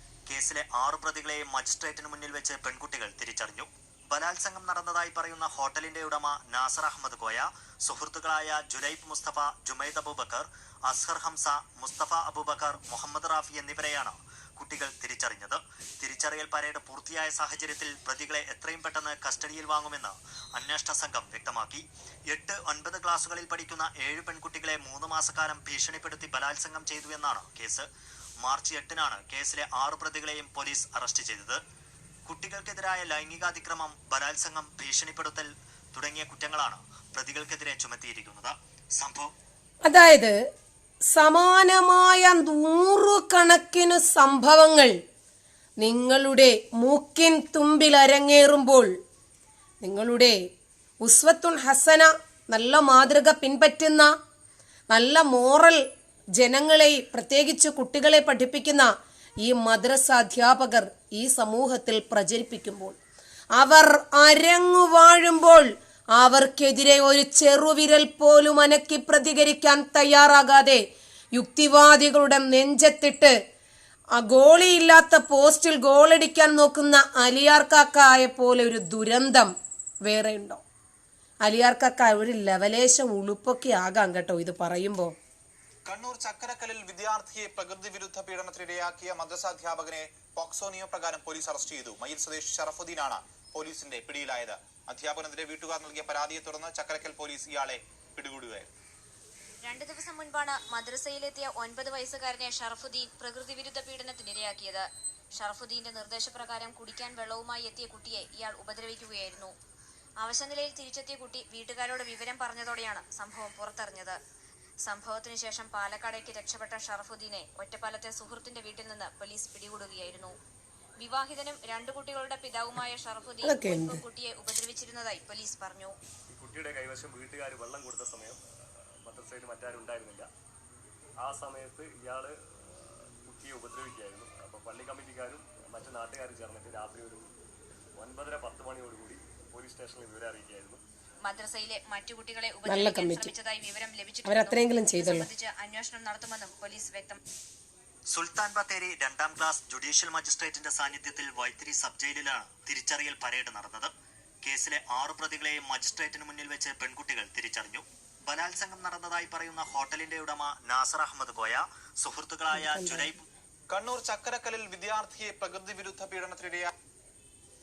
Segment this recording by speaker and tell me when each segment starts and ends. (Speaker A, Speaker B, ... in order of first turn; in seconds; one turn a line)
Speaker A: 0.3-27.9
Speaker A: 28.4-31.6
Speaker A: 32.3-39.3
Speaker B: 39.9-40.4
Speaker B: 41.1-44.9
Speaker B: 45.8-48.9
Speaker B: 49.8-50.4
Speaker B: 51.0-54.1
Speaker B: 54.9-55.8
Speaker B: 56.4-58.9
Speaker B: 59.4-63.0
Speaker B: 63.6-73.3
Speaker B: 74.2-79.5
Speaker B: 80.1-80.6
Speaker B: 81.5-85.1
Speaker C: 85.8-98.7
Speaker D: 99.6-109.5
Speaker D: 110.2-114.2
Speaker D: 114.8-120.3
Speaker D: 121.0-126.0
Speaker B: 123.4-124.0
Speaker E: 126.4-128.3
Speaker E: 129.1-130.2
Speaker E: 131.3-132.3
Speaker E: 133.3-137.2
Speaker E: 138.0-140.6
Speaker D: 141.2-147.2
Speaker B: 142.7-143.3
Speaker B: 144.2-145.3
Speaker A: 148.1-153.9
Speaker A: 154.4-163.2
Speaker B: 162.5-163.1
Speaker C: 163.7-166.7